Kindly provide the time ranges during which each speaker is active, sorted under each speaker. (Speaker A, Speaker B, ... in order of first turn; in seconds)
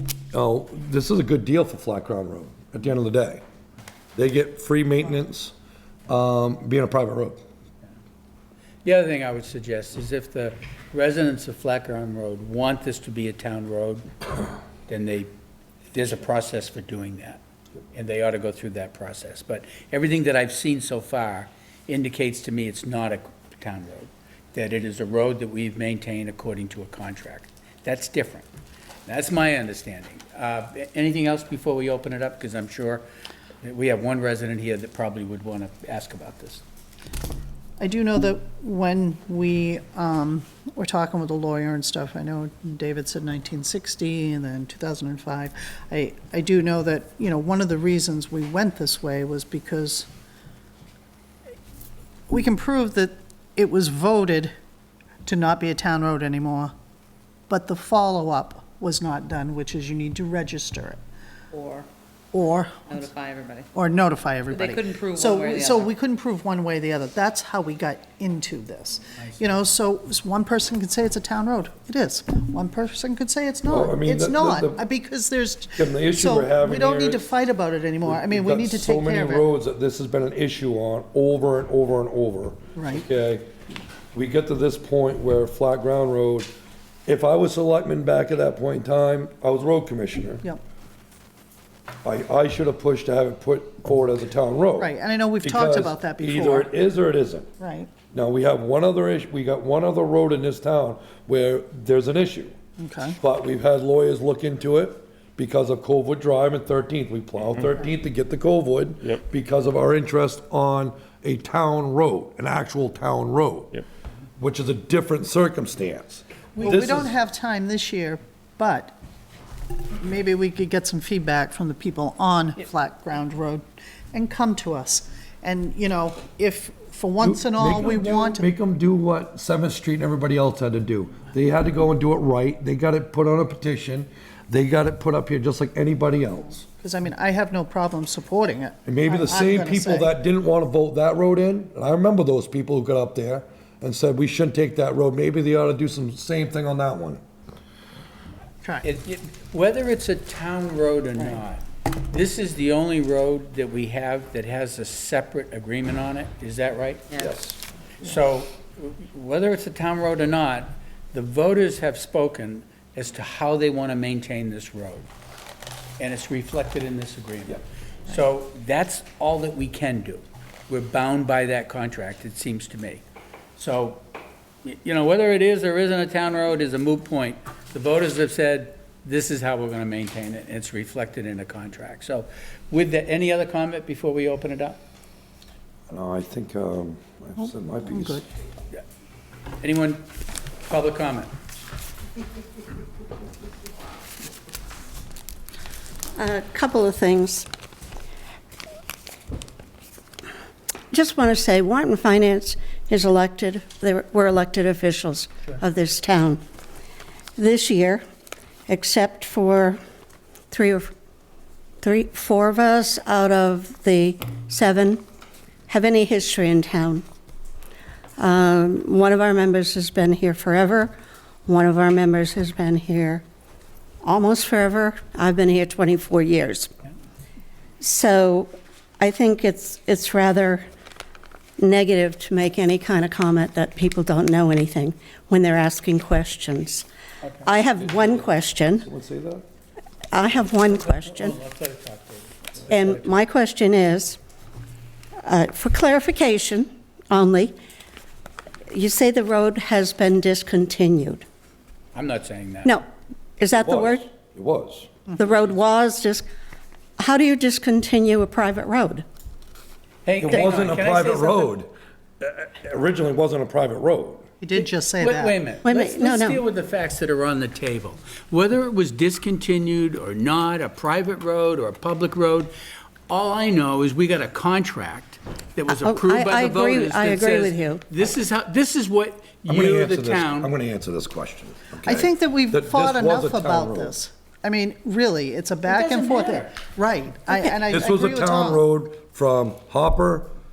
Speaker A: 0.3-3.4, 4.1-5.5, 6.1-7.4, 73.7-74.8, 75.8-77.2, 78.0-83.5, 84.1-86.5, 87.0-90.4, 92.0-94.9, 95.4-97.5, 98.0-102.5, 103.2-113.8, 114.4-117.1, 127.2-136.6, 138.8-147.2, 157.1-157.6, 185.9-188.1, 237.8-238.3, 238.8-239.4, 253.6-255.0, 260.2-261.7, 262.2-264.3, 279.4-284.0, 287.6-290.3
Speaker B: 8.8-14.1, 14.9-15.3, 15.9-17.4, 17.9-28.5, 29.1-33.0, 33.6-36.6, 69.2-69.5, 148.8-157.2, 158.0-165.1, 166.0-173.0, 173.6-174.0, 174.6-184.8, 189.6-190.1, 190.6-191.3, 240.4-243.0, 251.9-252.8, 260.0-261.5, 264.5-272.5, 273.1-280.5, 285.6-286.6
Speaker C: 37.8-50.1, 52.3-54.5, 55.2-56.7, 57.5-61.0, 62.3-63.1, 63.7-79.5, 82.7-83.0, 94.8-96.7, 97.6-98.0, 102.8-103.2, 116.5-118.9, 120.0-128.5, 136.8-140.1, 187.4-188.2, 264.4-265.4, 281.8-288.6
Speaker D: 61.5-61.9, 62.9-63.7, 64.5-65.9
Speaker E: 196.2-197.4, 200.9-206.4, 207.4-208.0, 208.7-209.8, 210.5-210.9, 211.8-215.0, 215.7-217.0, 218.2-220.9, 221.4-223.2, 224.0-226.7, 227.8-230.6, 231.6-236.8, 237.4-238.9, 240.1-241.4, 242.7-244.2, 245.2-247.5, 248.7-251.2, 253.4-254.1, 255.2-256.2, 257.0-259.0, 265.6-266.4, 275.7-277.8